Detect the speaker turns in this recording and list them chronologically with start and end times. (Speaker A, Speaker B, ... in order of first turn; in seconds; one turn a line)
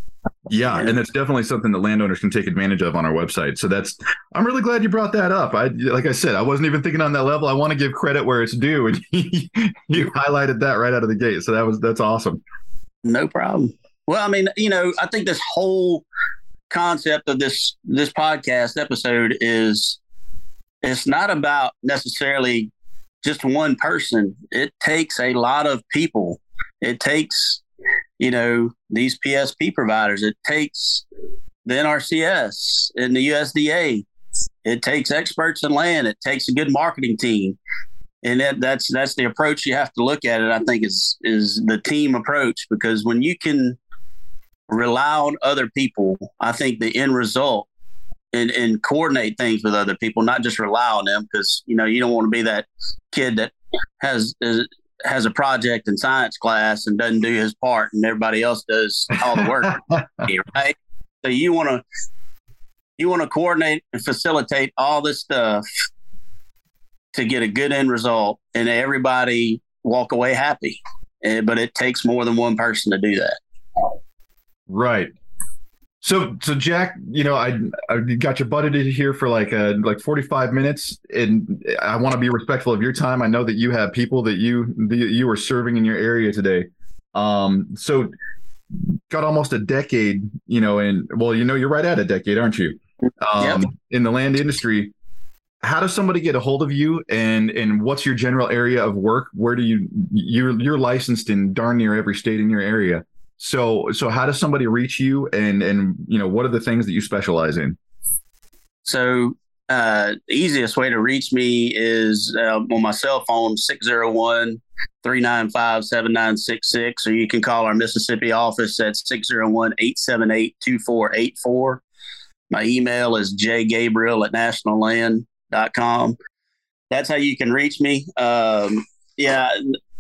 Speaker A: 0.5-12.4
Speaker B: 13.1-16.1
Speaker B: 16.7-20.0
Speaker B: 20.8-22.7
Speaker B: 23.2-27.6
Speaker B: 28.2-31.0
Speaker B: 31.6-34.0
Speaker B: 34.6-37.6
Speaker B: 38.2-43.8
Speaker B: 44.7-47.7
Speaker B: 48.3-61.8
Speaker A: 59.4-60.0
Speaker B: 63.0-65.6
Speaker B: 67.1-73.4
Speaker A: 74.7-75.1
Speaker A: 76.0-88.1
Speaker A: 89.1-94.9
Speaker B: 93.4-93.7
Speaker A: 95.6-107.8
Speaker B: 108.8-121.8
Speaker B: 122.5-126.2
Speaker B: 126.9-129.8